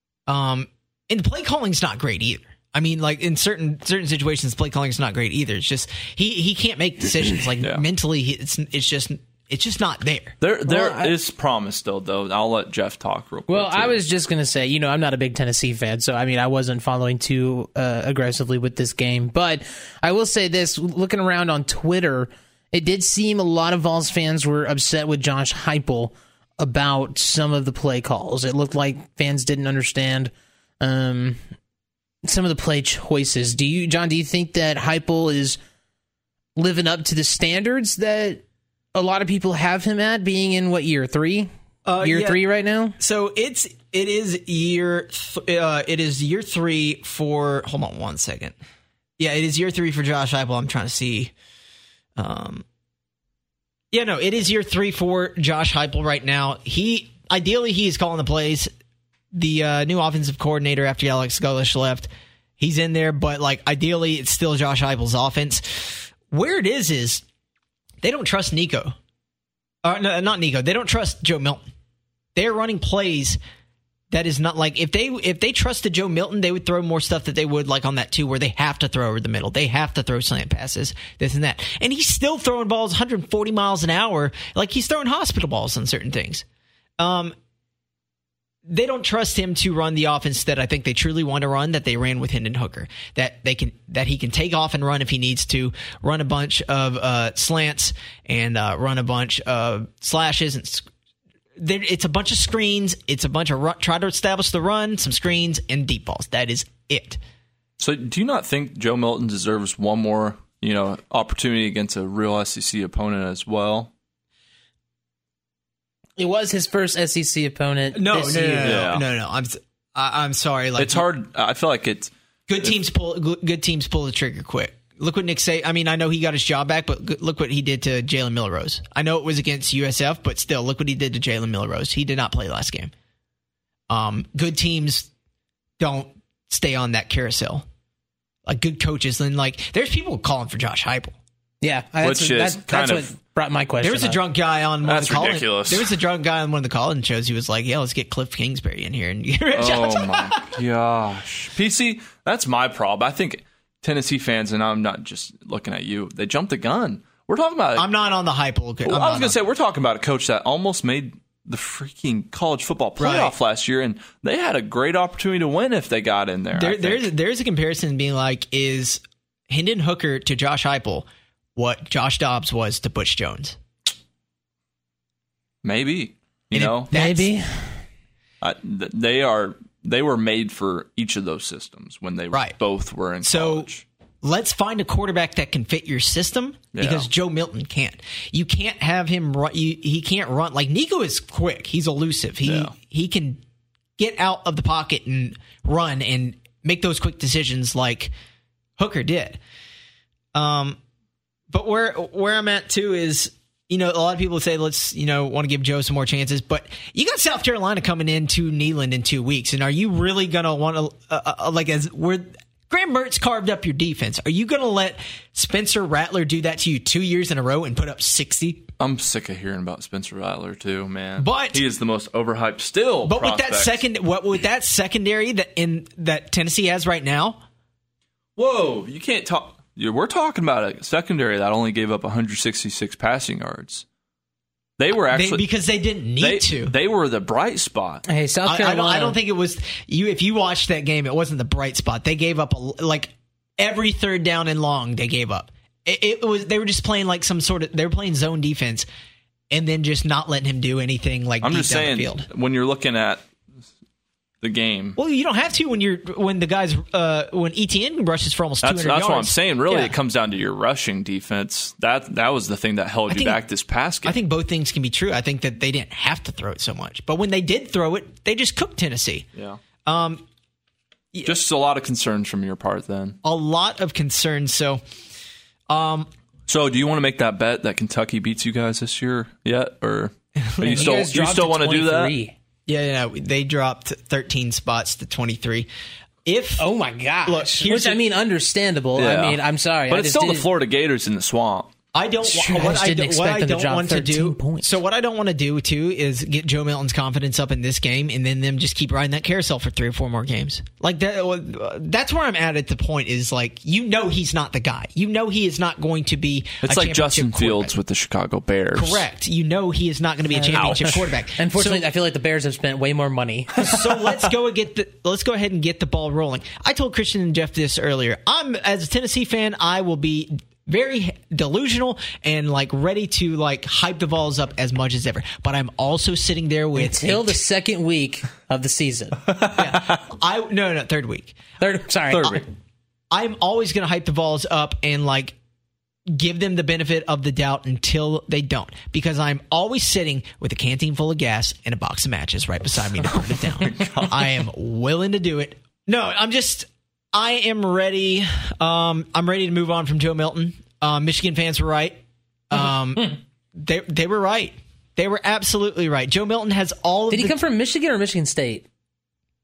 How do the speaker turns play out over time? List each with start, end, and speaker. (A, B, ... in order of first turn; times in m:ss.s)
0:00.3-0:10.4 A
0:10.4-0:14.0 B
0:10.6-0:11.1 C
0:13.5-0:31.4 C
0:32.2-0:35.6 C
0:36.6-0:38.4 C
0:38.9-0:43.0 C
0:41.8-0:42.4 A
0:43.0-0:48.6 A
0:49.2-0:51.3 A
0:52.2-0:52.6 A
0:53.9-0:58.7 A
0:59.3-1:07.2 A
1:08.0-1:08.9 A
1:09.8-1:11.6 A
1:12.4-1:13.4 A
1:14.1-1:26.4 A
1:27.0-1:27.4 A
1:28.6-1:40.9 A
1:41.6-1:47.2 A
1:47.8-1:53.9 B
1:56.2-1:58.9 C
1:57.9-2:01.0 A
1:58.6-1:59.1 B
2:00.8-2:02.1 B
2:02.5-2:12.9 A
2:13.9-2:15.1 A
2:15.8-2:17.6 A
2:18.5-2:21.1 A
2:21.6-2:24.2 C
2:22.0-2:23.1 B
2:23.8-2:30.5 A
2:24.8-2:25.9 B
2:29.5-2:37.9 B
2:37.8-2:39.4 A
2:38.8-2:47.1 B
2:43.0-2:43.4 A
2:46.5-2:53.6 A
2:55.6-2:56.9 B
2:56.5-2:57.3 A
2:56.9-2:57.8 C
2:58.4-3:03.8 B
3:03.2-3:03.7 A
3:04.2-3:13.4 A
3:06.8-3:07.1 B
3:12.4-3:12.7 B
3:14.0-3:18.1 A
3:18.8-3:19.4 A
3:20.3-3:20.8 A
3:21.5-3:38.7 A
3:38.8-3:43.8 B
3:41.2-3:41.6 A
3:43.1-3:47.4 A
3:48.4-3:53.8 B
3:54.8-3:55.4 B
3:55.1-3:56.7 A
3:56.2-3:58.0 B
3:58.1-3:59.2 C
3:58.4-4:08.9 A
4:09.5-4:12.2 A
4:11.4-4:13.2 B
4:14.4-4:15.0 B
4:15.0-4:19.9 A
4:18.6-4:24.2 B
4:23.1-4:23.4 A
4:24.0-4:29.2 A
4:29.8-4:30.2 A
4:31.1-4:31.4 A
4:31.2-4:33.2 B
4:33.2-4:34.8 A
4:35.7-4:36.1 A
4:36.5-4:42.1 B
4:40.4-4:40.9 A
4:40.6-4:42.4 C
4:42.7-4:45.7 A
4:46.2-4:46.6 A
4:46.6-4:50.5 C
4:47.2-4:48.0 A
4:49.0-4:51.7 B
4:51.9-5:07.8 A
4:52.2-4:54.8 C
5:06.6-5:09.0 B
5:08.7-5:11.9 A
5:10.3-5:14.0 C
5:10.5-5:11.1 B
5:13.6-5:27.4 A
5:26.8-5:29.2 C
5:29.3-5:30.0 B
5:29.5-5:31.4 A
5:31.6-5:32.4 C
5:32.1-5:32.4 B
5:33.1-5:35.4 A
5:36.1-5:57.4 A
5:43.6-5:44.4 B
5:57.1-5:58.6 C